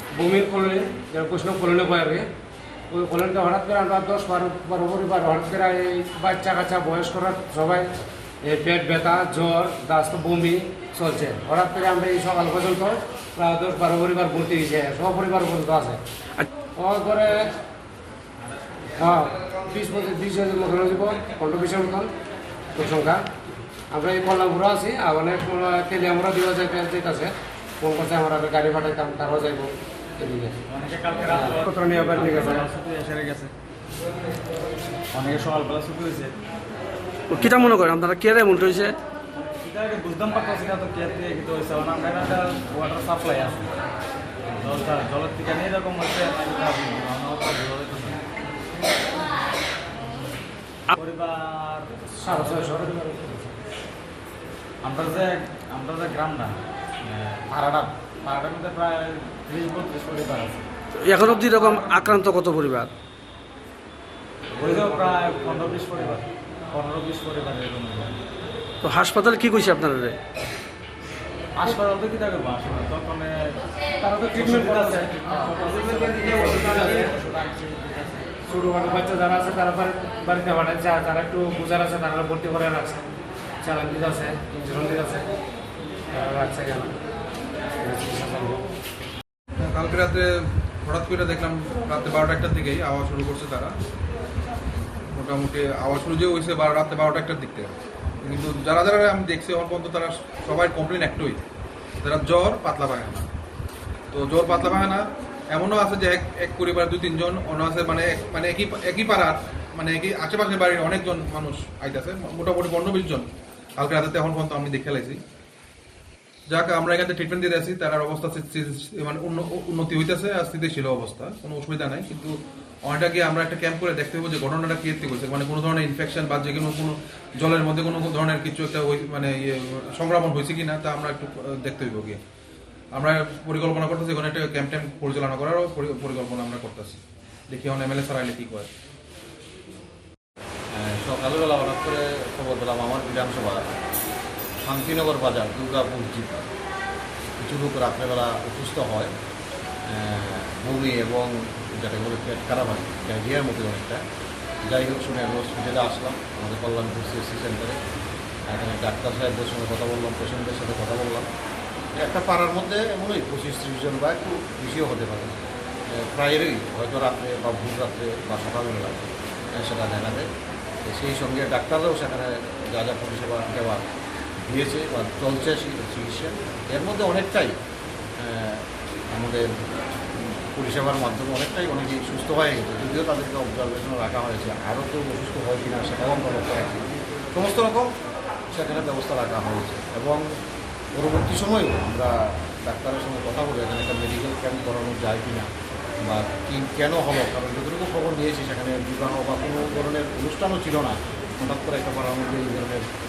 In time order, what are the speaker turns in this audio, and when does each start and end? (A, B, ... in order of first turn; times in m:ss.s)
0:00.1-0:02.2 A
0:02.9-0:07.9 A
0:08.4-0:16.0 A
0:16.8-0:17.5 A
0:19.0-0:22.1 A
0:22.8-0:23.2 A
0:23.9-0:30.6 A
0:30.7-0:33.5 B
0:31.4-0:32.7 A
0:35.1-0:36.3 B
0:37.3-0:39.0 C
0:39.6-0:43.7 B
0:44.5-0:48.2 B
0:50.9-0:52.6 B
0:52.2-0:53.6 A
0:54.8-1:00.7 B
1:01.0-1:02.9 C
1:01.6-1:02.0 B
1:04.6-1:08.1 B
1:08.8-1:10.2 C
1:11.6-1:13.6 B
1:14.0-1:15.1 A
1:14.3-1:18.3 B
1:15.9-1:17.1 A
1:18.5-1:23.0 A
1:23.6-1:25.2 A
1:26.1-1:27.0 A
1:27.8-1:28.7 A
1:29.6-1:33.7 D
1:35.1-1:41.4 D
1:42.0-1:43.3 D
1:44.1-1:53.2 D
1:53.8-1:55.2 D
1:56.5-2:12.2 D
2:12.9-2:18.7 D
2:20.7-2:23.6 E
2:24.6-2:26.5 E
2:27.4-2:29.1 E
2:29.9-2:34.0 E
2:34.7-2:37.8 E
2:38.5-2:41.3 E
2:42.0-2:45.4 E
2:45.9-2:50.3 E
2:50.8-2:53.8 E
2:54.4-2:57.6 E
2:58.2-2:59.5 E
3:00.1-3:07.9 E
3:08.5-3:10.2 E
3:11.0-3:15.5 E
3:16.1-3:22.8 E